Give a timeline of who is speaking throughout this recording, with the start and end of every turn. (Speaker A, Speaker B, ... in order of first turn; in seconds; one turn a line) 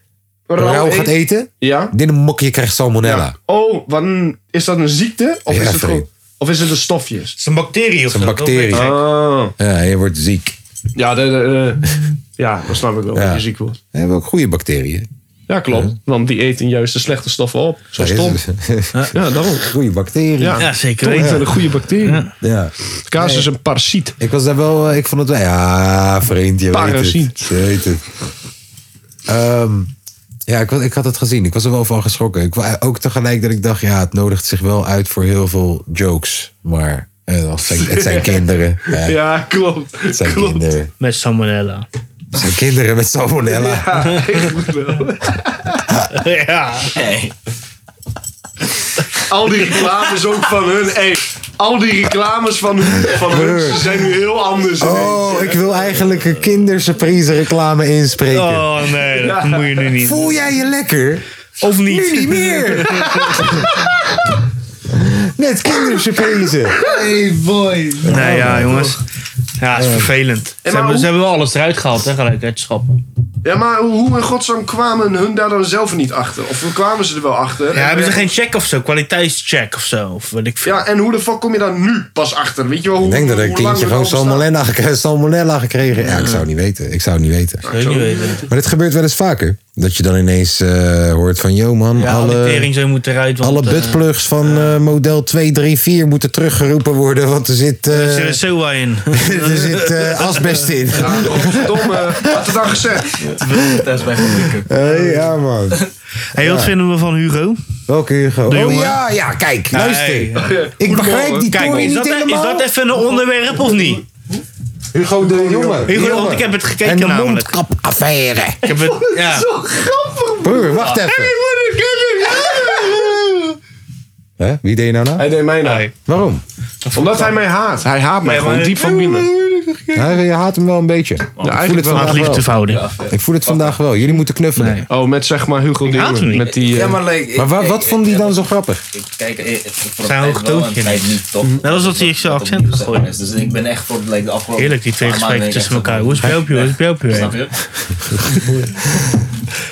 Speaker A: 0.5-1.9
Speaker B: 0.5-3.3
Speaker A: 3.0-7.3
Speaker B: 5.5-6.1
Speaker C: 7.4-8.9
Speaker B: 8.1-9.0
Speaker A: 8.7-9.5
Speaker B: 9.6-10.6
Speaker A: 10.9-11.8
Speaker A: 12.4-13.8
Speaker B: 13.1-15.1
Speaker A: 15.5-18.4
Speaker B: 17.9-21.5
Speaker A: 19.1-19.7
Speaker A: 20.4-22.2
Speaker C: 20.6-21.5
Speaker C: 22.0-22.3
Speaker B: 22.4-23.5
Speaker A: 23.1-24.1
Speaker B: 24.2-28.0
Speaker A: 26.7-27.5
Speaker B: 29.3-29.9
Speaker B: 30.5-39.2
Speaker A: 37.8-40.6
Speaker B: 40.1-40.9
Speaker C: 41.0-41.9
Speaker B: 42.3-44.1
Speaker A: 43.5-45.5
Speaker C: 46.1-46.9
Speaker D: 46.9-47.3
Speaker A: 49.3-55.4
Speaker B: 53.0-54.1
Speaker B: 54.8-58.7
Speaker C: 58.3-60.2
Speaker A: 59.2-59.8
Speaker B: 60.0-63.7
Speaker C: 61.6-63.4
Speaker A: 62.9-63.9
Speaker B: 64.9-66.9
Speaker B: 68.0-68.9
Speaker C: 68.0-69.0
Speaker A: 68.3-68.9
Speaker C: 69.6-73.0
Speaker B: 69.8-70.1
Speaker A: 70.6-71.1
Speaker A: 73.4-78.3
Speaker C: 77.7-80.8
Speaker A: 80.6-84.5
Speaker B: 83.0-87.7
Speaker C: 86.0-86.4
Speaker C: 87.7-88.5
Speaker A: 87.7-88.4
Speaker B: 88.5-92.7
Speaker C: 91.9-94.7
Speaker B: 93.4-98.4
Speaker C: 97.9-100.7
Speaker B: 99.1-102.5
Speaker A: 101.0-103.2
Speaker D: 103.4-104.7
Speaker B: 103.4-105.8
Speaker C: 104.8-105.2
Speaker C: 106.3-107.6
Speaker B: 106.4-106.7
Speaker B: 107.9-112.7
Speaker C: 108.5-109.0
Speaker C: 109.7-110.6
Speaker A: 110.4-111.8
Speaker C: 111.3-114.0
Speaker B: 114.9-118.6
Speaker A: 115.2-116.0
Speaker C: 115.9-117.5
Speaker C: 118.6-119.5
Speaker A: 119.0-123.4
Speaker B: 120.4-121.3
Speaker B: 124.4-125.3
Speaker A: 125.2-125.9
Speaker C: 125.6-125.9
Speaker B: 126.0-126.4
Speaker C: 126.8-127.4
Speaker A: 126.9-129.3
Speaker C: 128.2-130.0
Speaker B: 129.9-132.4
Speaker D: 131.4-131.7
Speaker A: 131.4-132.3
Speaker C: 131.9-132.8
Speaker D: 132.4-133.8
Speaker B: 133.1-134.8
Speaker C: 134.6-134.9
Speaker A: 134.9-137.0
Speaker C: 135.9-136.6
Speaker D: 136.6-147.5
Speaker B: 137.3-138.8
Speaker C: 140.0-143.1
Speaker C: 144.6-147.4
Speaker B: 148.0-149.2